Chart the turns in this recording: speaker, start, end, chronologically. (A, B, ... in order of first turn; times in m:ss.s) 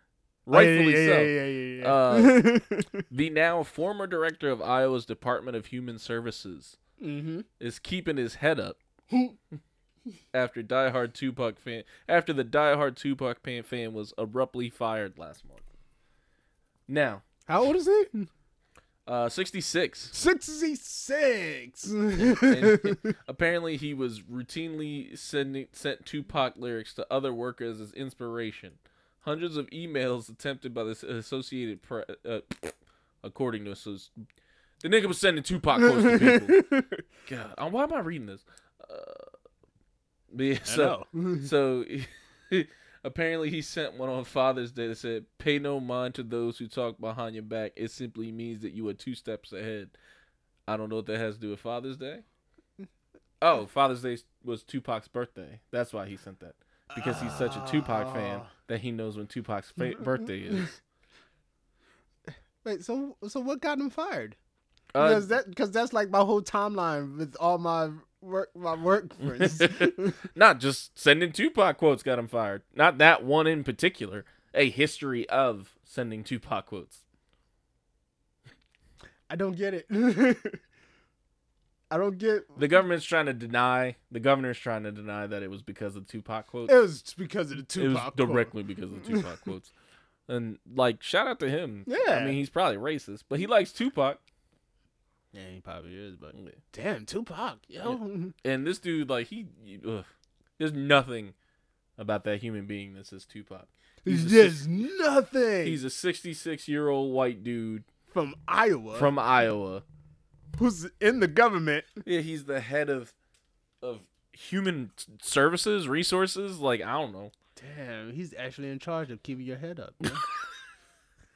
0:00.4-0:02.5 A
0:00.5-0:03.0 B
0:03.1-0:06.8 A
0:07.0-0:07.4 B
0:07.6-0:08.8 A
0:10.3-0:15.6 A
0:16.9-0:17.2 A
0:17.5-0:18.3 B
0:19.0-0:20.1 A
0:20.1-0:23.1 B
0:22.2-0:34.1 A
0:34.8-0:36.6 A
0:35.8-0:37.0 B
0:37.2-0:39.3 A
0:40.3-0:49.9 A
0:40.6-0:41.4 B
0:50.7-0:52.2 A
0:53.4-1:00.7 A
0:56.9-0:58.5 B
1:02.6-1:04.4 B
1:04.9-1:05.3 A
1:05.0-1:10.2 B
1:09.3-1:17.0 A
1:19.3-1:20.6 B
1:21.9-1:22.6 B
1:22.6-1:26.8 A
1:26.7-1:28.5 B
1:27.8-1:29.7 A
1:30.3-1:34.2 A
1:31.9-1:32.4 B
1:35.3-1:38.3 B
1:37.8-1:41.3 A
1:42.0-1:44.6 A
1:44.0-1:45.8 B
1:45.6-1:47.8 A
1:48.1-1:49.1 B
1:48.9-1:49.8 A
1:50.5-1:52.0 B
1:52.0-1:53.1 A
1:53.8-1:57.3 A
1:57.6-2:00.2 B